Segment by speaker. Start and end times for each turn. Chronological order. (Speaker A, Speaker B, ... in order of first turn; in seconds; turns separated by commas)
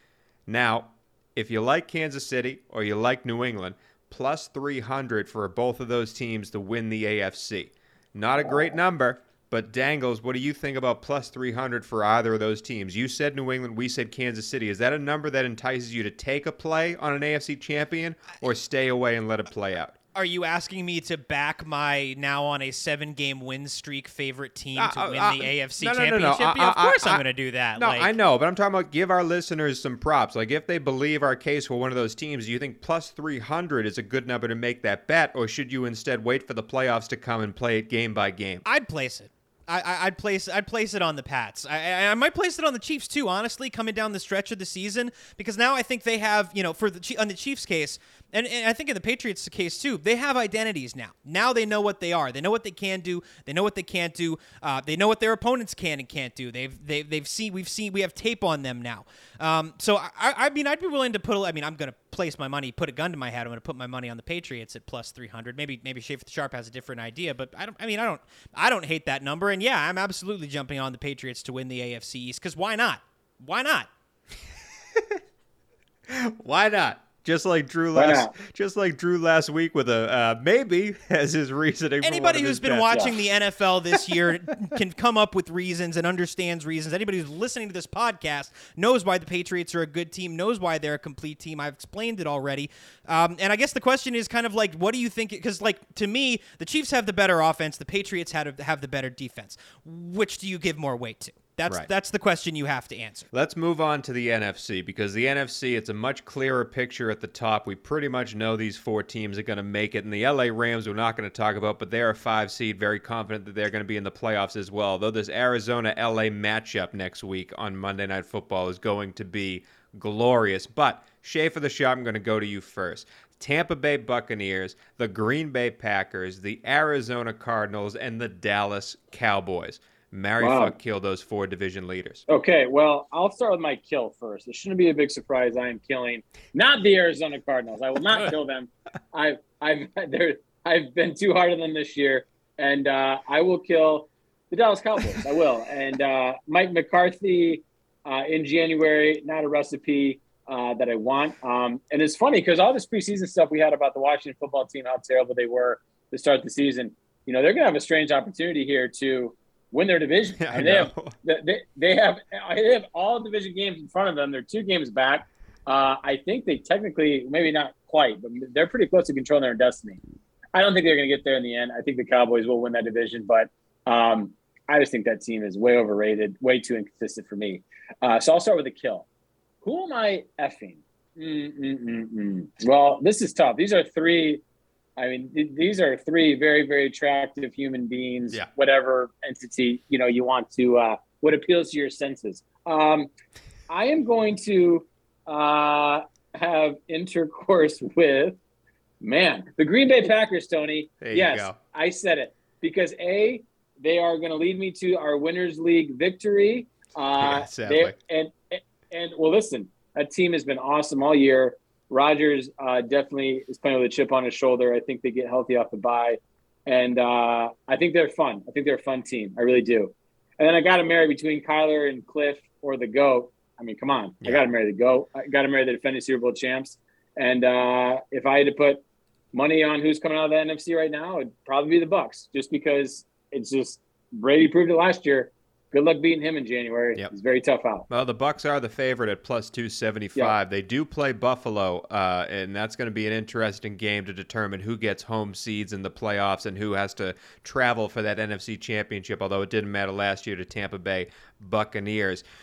Speaker A: 0.5-20.0, Speaker B: 20.1-28.1, Speaker A: 24.8-27.2, Speaker A: 27.8-38.6, Speaker B: 38.7-73.9, Speaker A: 76.1-83.2, Speaker C: 78.0-78.3, Speaker B: 82.0-103.3, Speaker A: 103.3-132.3, Speaker C: 130.4-130.7, Speaker C: 132.3-170.0, Speaker A: 160.4-161.2, Speaker C: 170.5-179.1, Speaker C: 179.6-184.4, Speaker C: 185.0-193.1, Speaker C: 193.7-198.4, Speaker C: 199.0-237.9, Speaker A: 201.0-201.6, Speaker A: 207.2-207.9, Speaker A: 237.9-252.2